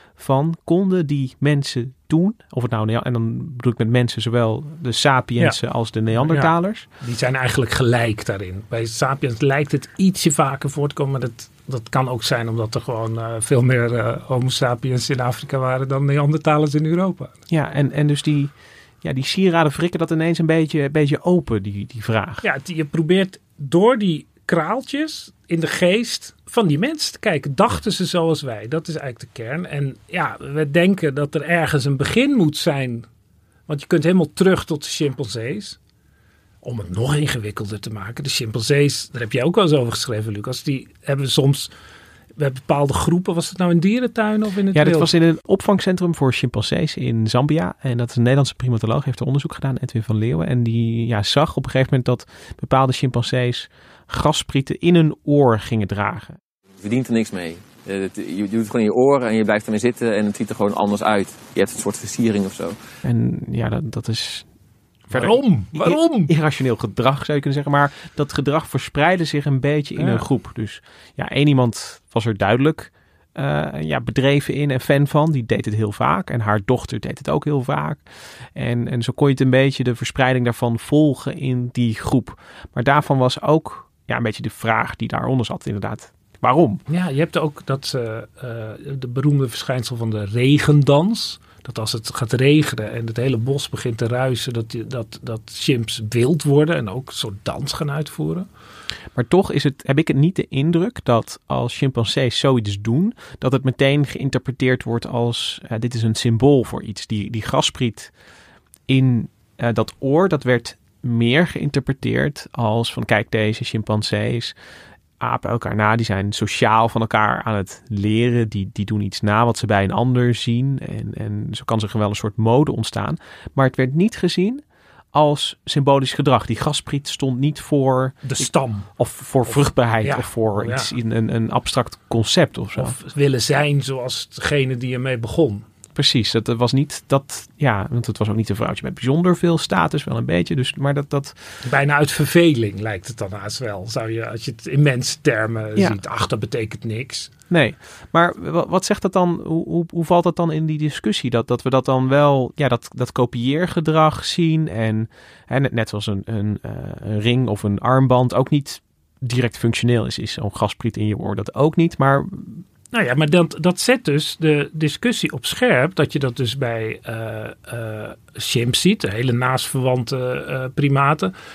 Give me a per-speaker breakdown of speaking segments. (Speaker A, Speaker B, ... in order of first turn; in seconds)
Speaker A: 0.2-6.9, 17.5-18.5, 19.0-22.4, 44.7-56.4, 63.0-64.5, 65.1-78.0, 78.5-86.8, 99.2-108.1, 108.9-114.5, 115.2-124.6, 125.1-132.9, 135.9-141.4, 147.5-162.6
Speaker B: 6.1-17.3, 22.4-33.1, 33.7-35.8, 36.6-41.7, 42.4-45.1, 65.1-66.3, 70.0-70.3, 86.9-98.5, 128.2-128.9, 129.4-130.9, 132.8-135.7, 141.6-147.3, 162.9-171.3
Speaker C: 56.8-62.8